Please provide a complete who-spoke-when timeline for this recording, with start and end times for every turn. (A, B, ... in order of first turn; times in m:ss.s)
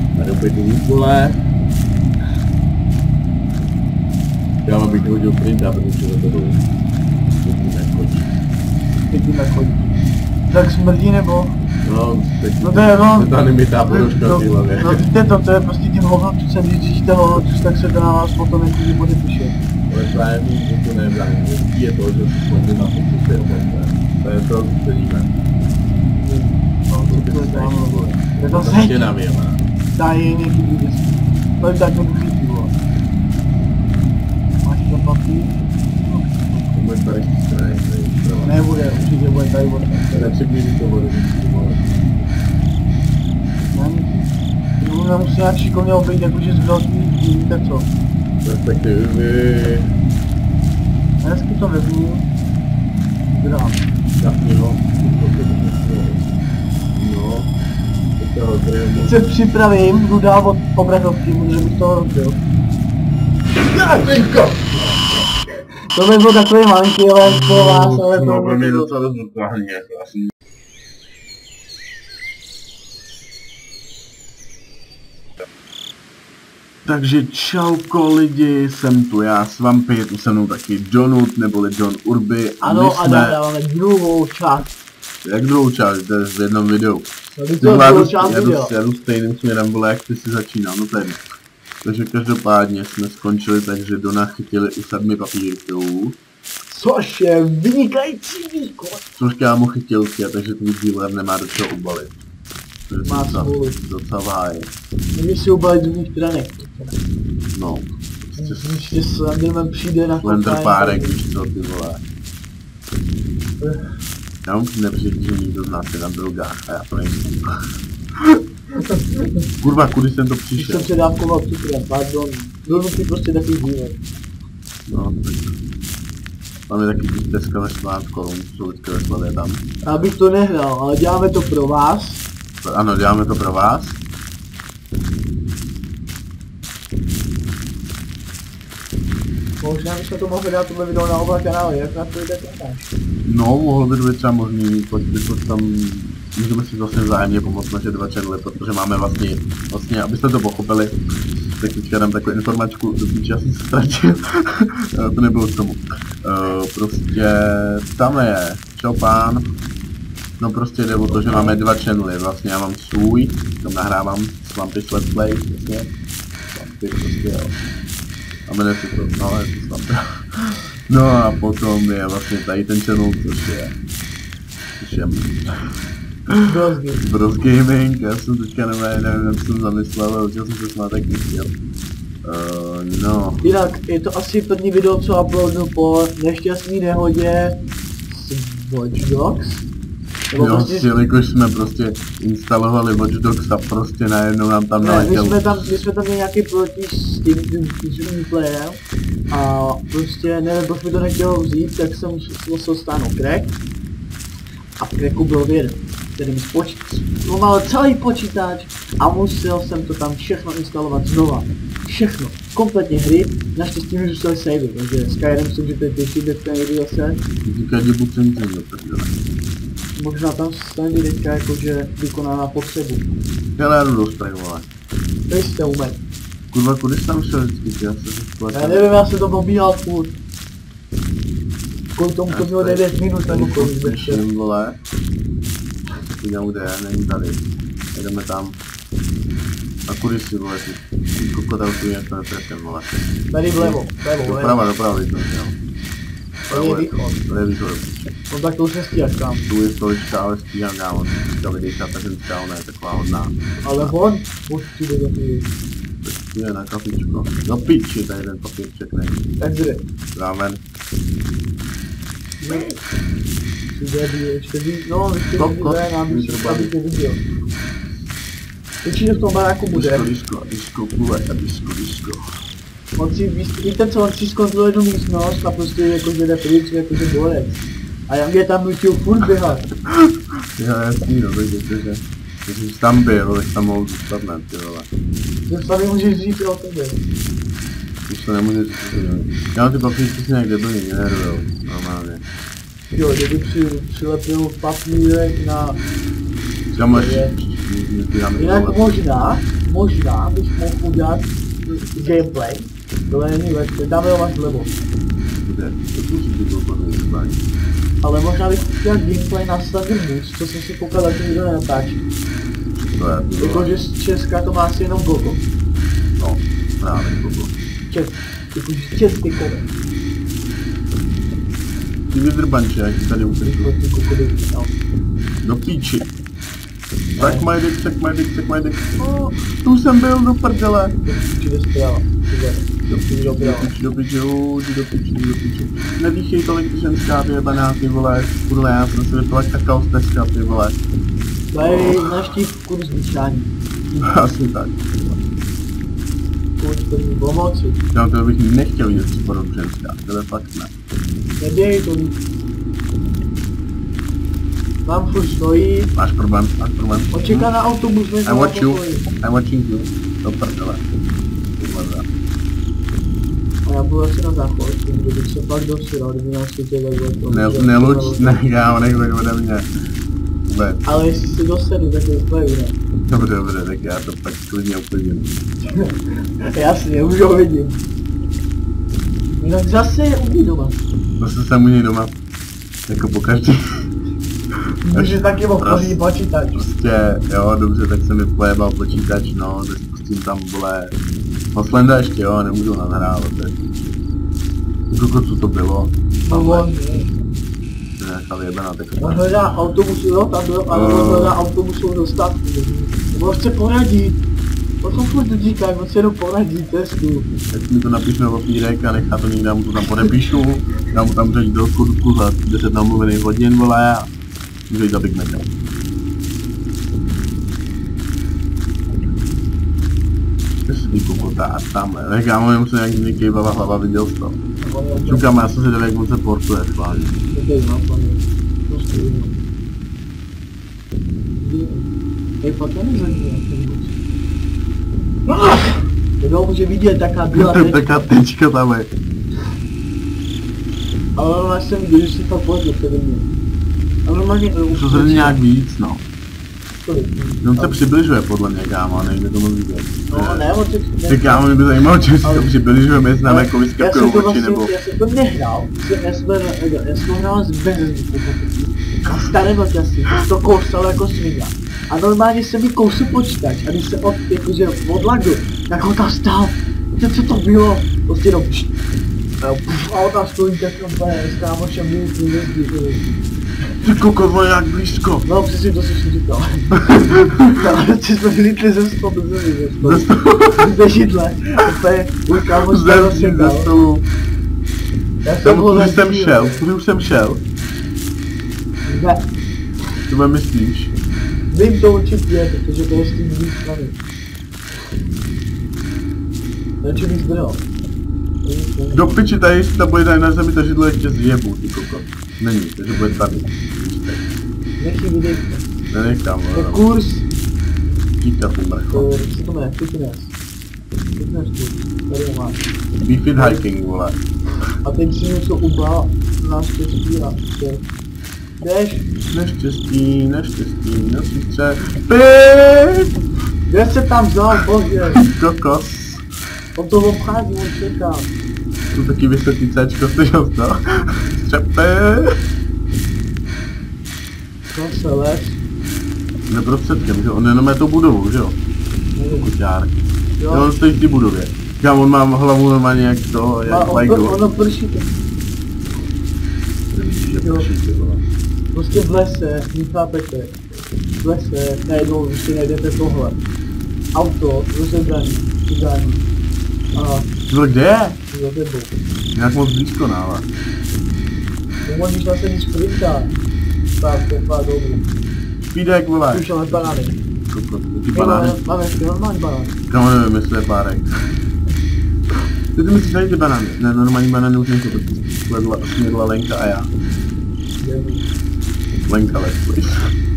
0:00.1-0:01.4 A
0:04.6-0:06.6 A
0:07.4-0:08.4 A
0:09.1-0:09.9 B
0:10.5-0:11.6 B
0:11.8-0:15.1 A
0:12.6-0:13.3 B
0:13.9-0:19.6 B
0:19.9-0:25.3 A
0:26.1-0:29.1 B
0:27.1-0:29.6 A
0:30.0-0:32.7 B
0:34.6-0:36.8 B
0:36.7-0:38.6 A
0:38.4-0:40.4 B
0:40.1-0:42.4 A
0:43.7-0:44.3 B
0:44.8-0:47.9 B
0:48.4-0:49.9 A
0:51.2-0:52.3 B
0:53.3-0:53.8 B
0:54.2-0:56.3 A
0:56.9-0:57.5 A
0:58.2-0:59.2 A
0:59.0-1:02.4 B
1:03.7-1:04.9 A
1:05.9-1:08.9 B
1:07.2-1:10.3 A
1:16.8-1:23.4 A
1:22.6-1:24.7 B
1:25.2-1:27.1 A
1:27.3-1:28.7 B
1:27.6-1:31.2 A
1:31.8-1:36.2 A
1:36.7-1:39.1 B
1:39.2-1:42.2 A
1:42.9-1:44.7 A
1:43.0-1:43.8 B
1:45.1-1:47.0 B
1:47.5-1:48.9 A
1:48.4-1:51.2 B
1:50.2-1:52.0 A
1:53.6-1:53.9 B
1:54.4-1:57.6 A
1:59.6-2:00.9 A
2:00.6-2:04.0 B
2:04.9-2:05.6 A
2:06.7-2:09.6 A
2:09.8-2:12.2 B
2:12.6-2:14.0 A
2:19.6-2:22.9 B
2:23.3-2:31.0 A
2:31.6-2:39.5 A
2:40.4-2:45.9 A
2:41.3-2:41.6 B
2:46.5-2:47.6 A
2:48.5-2:53.7 A
2:54.8-2:55.4 A
2:56.4-2:57.0 B
2:57.0-3:01.5 A
3:02.2-3:03.5 A
3:03.4-3:07.6 B
3:08.1-3:09.7 B
3:10.3-3:10.9 B
3:10.4-3:15.7 A
3:14.8-3:18.8 B
3:19.3-3:23.6 B
3:24.8-3:37.2 B
3:37.4-3:39.1 A
3:40.0-3:43.1 B
3:43.6-3:44.7 A
3:45.3-3:46.0 B
3:46.5-3:48.9 A
3:48.5-3:50.2 B
3:52.0-3:54.2 B
3:52.3-3:54.8 A
3:56.0-3:58.6 A
3:59.9-4:02.9 A
4:03.3-4:04.7 B
4:03.5-4:05.6 A
4:06.5-4:07.2 B
4:06.5-4:08.1 A
4:08.3-4:09.5 B
4:09.5-4:13.9 A
4:13.6-4:15.5 B
4:16.0-4:19.2 A
4:19.4-4:19.8 B
4:20.2-4:20.6 A
4:22.4-4:22.8 B
4:23.6-4:27.2 B
4:25.4-4:26.7 A
4:28.8-4:30.1 B
4:29.7-4:32.2 A
4:33.0-4:39.7 B
4:39.9-4:44.9 A
4:45.5-4:47.1 B
4:48.1-4:52.2 A
4:52.9-4:55.8 B
4:56.7-4:58.9 A
4:56.9-4:57.3 B
4:58.4-5:04.7 B
5:05.4-5:07.4 A
5:08.0-5:12.1 B
5:12.8-5:13.8 A
5:13.4-5:15.4 B
5:16.2-5:17.5 A
5:17.9-5:19.7 B
5:22.1-5:23.7 A
5:23.4-5:24.7 B
5:25.4-5:26.1 A
5:27.2-5:31.0 A
5:27.2-5:27.5 B
5:29.0-5:29.3 B
5:31.0-5:33.7 B
5:32.9-5:40.8 A
5:41.5-5:43.5 B
5:41.7-5:42.0 A
5:44.0-5:45.2 A
5:46.6-5:47.8 B
5:47.9-5:50.7 A
5:51.4-5:52.2 B
5:54.9-5:55.9 B
5:56.0-5:57.5 A
5:57.1-5:59.1 B
5:58.2-6:00.8 A
6:01.6-6:02.1 A
6:03.7-6:08.4 B
6:07.3-6:09.7 A
6:10.5-6:10.8 A
6:10.8-6:12.8 B
6:13.1-6:15.3 A
6:15.6-6:17.8 B
6:19.4-6:20.8 B
6:21.2-6:22.1 A
6:22.9-6:23.9 A
6:24.8-6:26.7 B
6:24.9-6:26.0 A
6:26.6-6:30.9 A
6:31.5-6:33.6 A
6:34.9-6:36.7 A
6:36.3-6:37.1 B
6:38.0-6:39.3 A
6:39.0-6:44.2 B
6:40.7-6:41.4 A
6:44.8-6:47.3 B
6:47.5-6:54.1 A
6:54.7-6:55.5 A
7:00.7-7:04.4 A
7:04.6-7:05.3 B
7:05.1-7:07.2 A
7:07.3-7:09.4 B
7:11.4-7:11.9 B
7:12.4-7:14.0 B
7:15.3-7:18.1 B
7:17.3-7:18.9 A
7:21.2-7:23.3 B
7:24.1-7:25.4 B
7:24.7-7:26.0 A
7:26.8-7:27.8 B
7:27.4-7:30.5 A
7:30.1-7:31.5 B
7:31.1-7:34.7 A
7:32.2-7:32.5 B
7:33.2-7:48.7 B
7:49.4-7:53.1 B
7:53.8-7:55.3 A
7:55.2-8:03.8 B
7:56.9-7:57.4 A
7:59.8-8:00.7 A
8:02.6-8:04.1 A
8:05.2-8:06.6 B
8:05.4-8:07.4 A
8:08.8-8:09.3 B
8:10.1-8:10.9 A
8:11.5-8:14.0 B
8:16.8-8:17.6 B
8:18.4-8:19.2 B
8:18.9-8:24.3 A
8:24.8-8:25.6 B
8:25.9-8:26.8 A
8:26.5-8:27.3 B
8:28.2-8:29.1 A
8:28.9-8:30.3 B
8:31.1-8:32.6 B
8:33.0-8:34.2 A
8:33.4-8:33.6 B
8:34.8-8:37.8 B
8:38.6-8:39.1 B
8:39.3-8:43.1 A
8:43.7-8:45.3 B
8:45.1-8:46.2 A
8:46.8-8:48.3 B
8:48.9-8:52.4 A
8:54.7-8:55.6 B
8:56.5-8:58.6 A
8:59.2-8:59.5 B
8:59.4-9:00.0 A
9:00.4-9:00.7 B
9:00.5-9:04.4 A
9:03.7-9:05.1 B
9:06.9-9:08.2 A
9:07.4-9:07.7 B
9:08.7-9:10.6 B
9:11.2-9:13.4 B
9:14.2-9:16.3 B
9:17.0-9:17.3 B
9:17.5-9:18.2 A
9:18.3-9:18.9 B
9:19.3-9:20.5 A
9:21.9-9:23.3 B
9:24.0-9:25.0 B
9:25.6-9:26.5 A
9:26.3-9:27.2 B
9:27.5-9:28.6 A
9:28.1-9:29.8 B
9:29.9-9:31.1 A
9:32.7-9:36.9 A
9:37.8-9:38.3 B
9:39.1-9:40.1 A